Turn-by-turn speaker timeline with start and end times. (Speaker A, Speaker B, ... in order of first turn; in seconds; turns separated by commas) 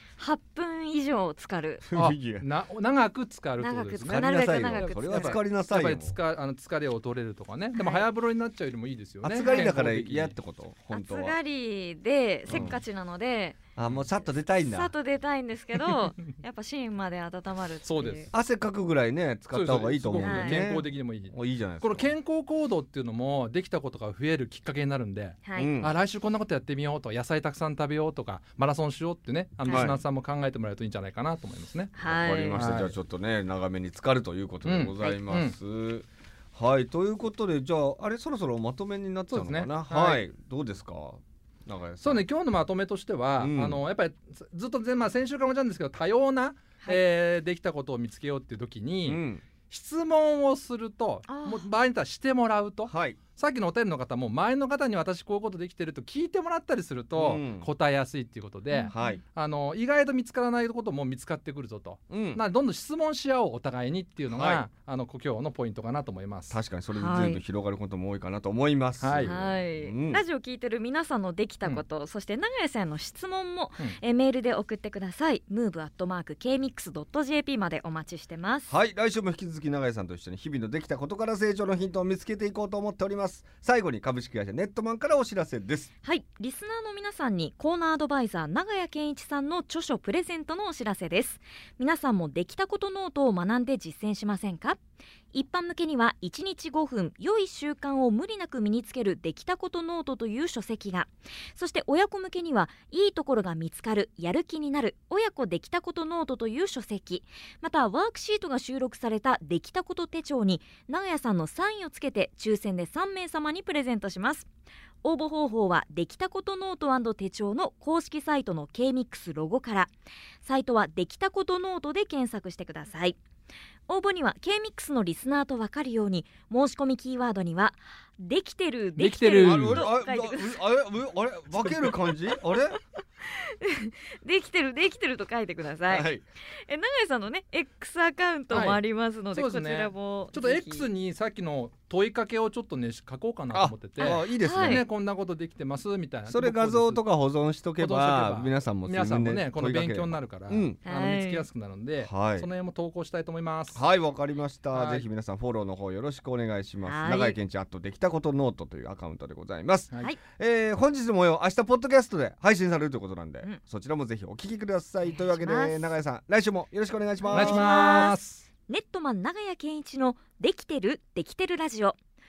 Speaker A: 0.2-1.9, Speaker B: 1.8-2.5, Speaker C: 1.9-10.3, Speaker A: 3.6-5.4, Speaker B: 4.0-6.2, Speaker A: 7.8-8.0, Speaker B: 9.2-11.4, Speaker A: 9.4-9.7, Speaker A: 10.9-13.6, Speaker B: 12.5-12.8, Speaker B: 13.8-14.9, Speaker A: 14.6-18.3, Speaker C: 17.8-18.3, Speaker B: 18.3-22.1, Speaker C: 19.5-31.9, Speaker A: 20.2-20.6, Speaker A: 25.4-25.7, Speaker B: 25.6-25.9, Speaker A: 29.6-29.9, Speaker B: 29.7-30.0, Speaker A: 31.9-32.6, Speaker B: 32.0-42.2, Speaker C: 32.5-33.0, Speaker C: 34.6-35.6, Speaker C: 39.3-40.3, Speaker C: 42.0-66.6, Speaker B: 43.4-43.8, Speaker B: 49.1-49.5, Speaker A: 51.3-51.7, Speaker B: 52.9-53.2, Speaker B: 57.2-57.7, Speaker A: 58.7-59.2, Speaker B: 58.9-59.2, Speaker B: 62.1-62.4, Speaker B: 64.3-64.7, Speaker B: 66.5-70.2, Speaker A: 66.9-67.4, Speaker C: 69.0-69.3, Speaker A: 69.2-78.7, Speaker B: 78.7-85.9, Speaker A: 86.0-94.8, Speaker A: 95.3-114.5, Speaker A: 115.0-119.9, Speaker A: 120.4-123.2, Speaker A: 123.9-130.6, Speaker C: 129.0-129.9, Speaker B: 129.4-132.8, Speaker A: 133.2-140.9, Speaker B: 135.9-136.2, Speaker C: 138.5-138.8, Speaker C: 139.3-147.1, Speaker B: 143.5-144.8, Speaker A: 144.0-144.8, Speaker B: 146.3-150.8, Speaker C: 147.8-153.8, Speaker A: 150.9-151.5, Speaker B: 152.0-152.5, Speaker B: 153.7-168.0, Speaker C: 154.7-155.1, Speaker A: 156.8-157.4, Speaker A: 165.0-165.9, Speaker A: 167.2-172.0, Speaker C: 167.3-168.4